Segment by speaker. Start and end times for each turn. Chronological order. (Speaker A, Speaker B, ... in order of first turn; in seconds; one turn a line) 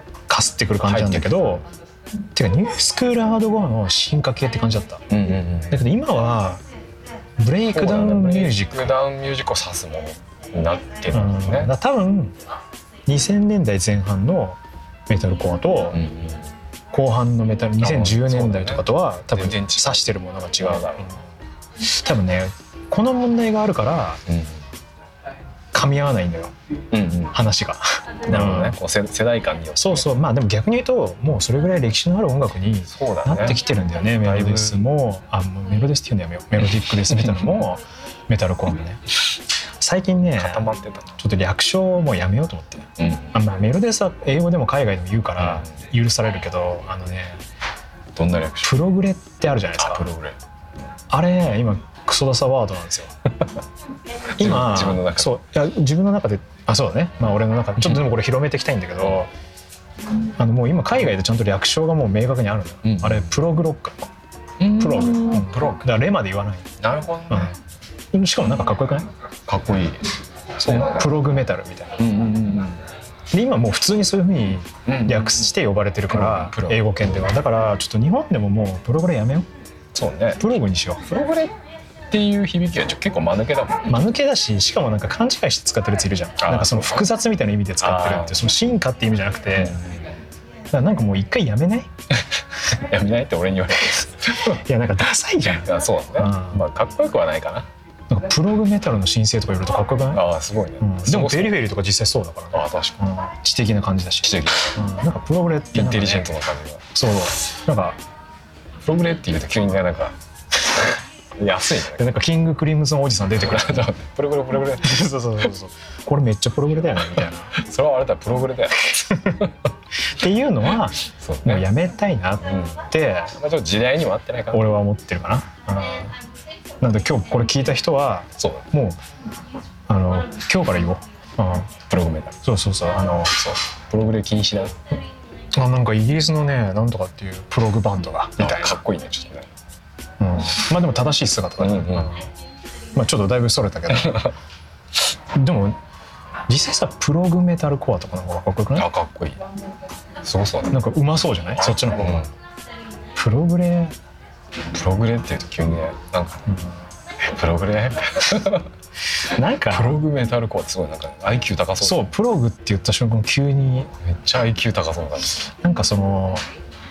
Speaker A: 0.3-1.7
Speaker B: 0.8-1.6
Speaker A: 2.3-5.0
Speaker B: 5.1-5.8
Speaker A: 5.7-6.6
Speaker A: 7.4-9.0
Speaker B: 7.7-11.7
Speaker A: 11.1-12.3
Speaker A: 13.1-16.0
Speaker B: 15.9-16.4
Speaker A: 16.9-21.1
Speaker B: 17.8-21.2
Speaker A: 21.8-24.2
Speaker B: 24.3-24.6
Speaker A: 25.7-26.5
Speaker B: 26.9-27.4
Speaker A: 27.3-28.8
Speaker B: 28.3-30.1
Speaker A: 29.8-39.0
Speaker B: 32.9-33.6
Speaker B: 34.2-34.8
Speaker B: 37.1-37.6
Speaker A: 39.8-47.4
Speaker B: 40.4-41.2
Speaker B: 43.0-43.3
Speaker B: 45.4-45.8
Speaker B: 48.2-48.8
Speaker A: 48.6-50.1
Speaker B: 49.8-50.4
Speaker A: 51.1-53.1
Speaker B: 54.4-55.4
Speaker A: 54.4-59.3
Speaker A: 60.4-64.1
Speaker B: 62.8-63.3
Speaker B: 64.6-65.9
Speaker A: 64.8-66.7
Speaker B: 66.8-67.5
Speaker A: 67.3-67.5
Speaker A: 68.1-69.1
Speaker B: 69.5-70.1
Speaker A: 70.6-72.0
Speaker B: 70.6-71.0
Speaker B: 72.0-72.8
Speaker A: 73.3-79.5
Speaker B: 74.9-75.6
Speaker B: 76.1-77.2
Speaker B: 79.9-80.4
Speaker A: 80.4-81.1
Speaker B: 81.1-81.5
Speaker B: 82.1-84.0
Speaker A: 83.9-89.8
Speaker B: 86.4-87.1
Speaker B: 87.8-88.4
Speaker B: 89.6-90.2
Speaker A: 90.7-91.9
Speaker B: 92.7-94.6
Speaker A: 94.5-96.7
Speaker B: 95.5-97.7
Speaker A: 98.1-100.2
Speaker B: 100.1-101.6
Speaker A: 100.8-106.4
Speaker B: 102.5-103.0
Speaker B: 104.2-104.8
Speaker B: 105.7-106.8
Speaker A: 106.9-108.0
Speaker B: 108.8-110.2
Speaker B: 111.4-112.2
Speaker A: 112.0-113.9
Speaker B: 113.3-115.0
Speaker A: 114.8-117.5
Speaker B: 117.5-119.5
Speaker A: 118.9-119.4
Speaker A: 120.1-123.3
Speaker B: 121.0-121.7
Speaker B: 122.5-124.7
Speaker A: 124.5-126.2
Speaker A: 126.8-129.0
Speaker B: 128.4-128.7
Speaker A: 129.9-131.7
Speaker B: 131.9-132.4
Speaker A: 132.4-133.4
Speaker B: 133.4-134.8
Speaker A: 135.6-138.8
Speaker B: 138.4-139.5
Speaker A: 140.2-142.3
Speaker B: 141.6-142.2
Speaker A: 142.9-144.3
Speaker B: 143.9-144.3
Speaker A: 145.3-145.8
Speaker A: 146.5-148.9
Speaker B: 148.8-149.4
Speaker B: 150.2-150.8
Speaker A: 150.7-152.3
Speaker B: 151.6-152.3
Speaker A: 153.2-154.0
Speaker B: 154.7-156.5
Speaker A: 156.5-156.7
Speaker B: 157.2-158.7
Speaker A: 159.3-160.0
Speaker B: 159.7-162.1
Speaker A: 161.8-163.9
Speaker B: 164.0-165.5
Speaker A: 165.6-166.4